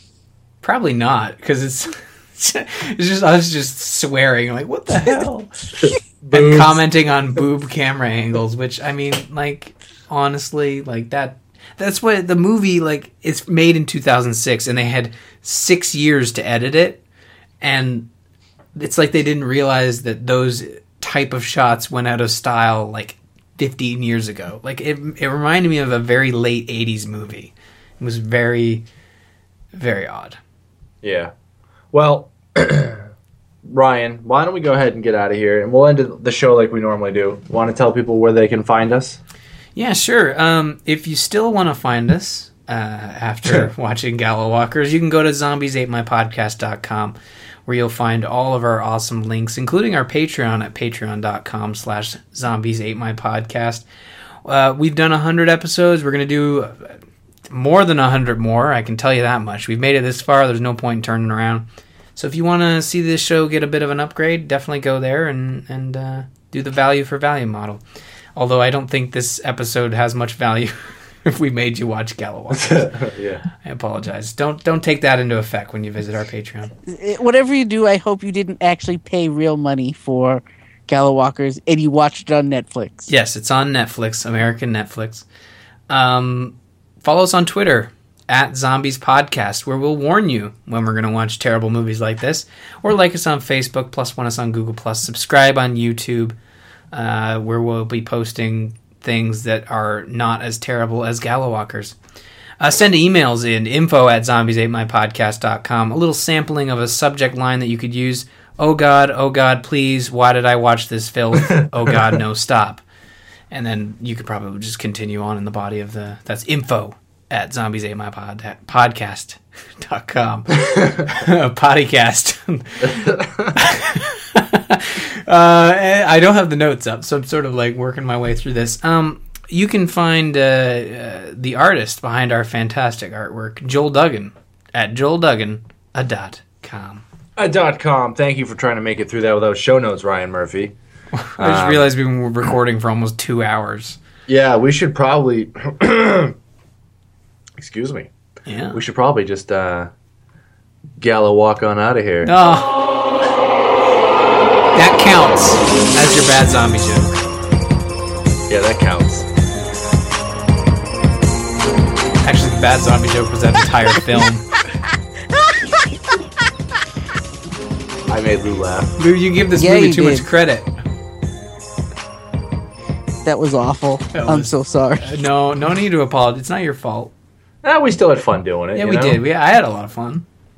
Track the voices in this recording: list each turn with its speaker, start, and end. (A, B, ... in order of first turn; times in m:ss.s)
0:00.6-0:17.0 A
0:05.8-0:06.8 B
0:17.6-0:18.1 A
0:18.8-0:28.8 A
0:29.7-0:30.4 A
0:31.0-0:31.3 B
0:31.9-0:33.0 B
0:33.6-0:39.2 B
0:39.8-0:47.2 A
0:47.7-0:53.8 A
0:54.4-1:07.8 A
1:08.4-1:16.7 A
1:12.5-1:13.4 B
1:16.9-1:23.1 C
1:23.1-1:25.2 A
1:25.9-1:36.4 A
1:36.9-1:41.9 A
1:42.6-1:52.8 A
1:53.5-2:17.0 A
2:03.2-2:03.5 B
2:17.4-2:20.7 B
2:21.1-2:24.0 A
2:21.4-2:21.9 B
2:24.3-2:26.3 B
2:27.6-2:28.1 B
2:28.4-2:28.8 A
2:28.7-2:29.9 B
2:31.0-2:32.3 B
2:32.2-2:33.0 A
2:34.7-2:37.2 A
2:38.5-2:39.3 B
2:42.2-2:44.5 A
2:48.1-2:49.0 B
2:49.0-2:50.7 A
2:49.6-2:50.3 C
2:53.2-2:55.2 C
2:54.1-2:57.1 A
2:57.6-2:59.2 B
2:58.8-3:00.2 A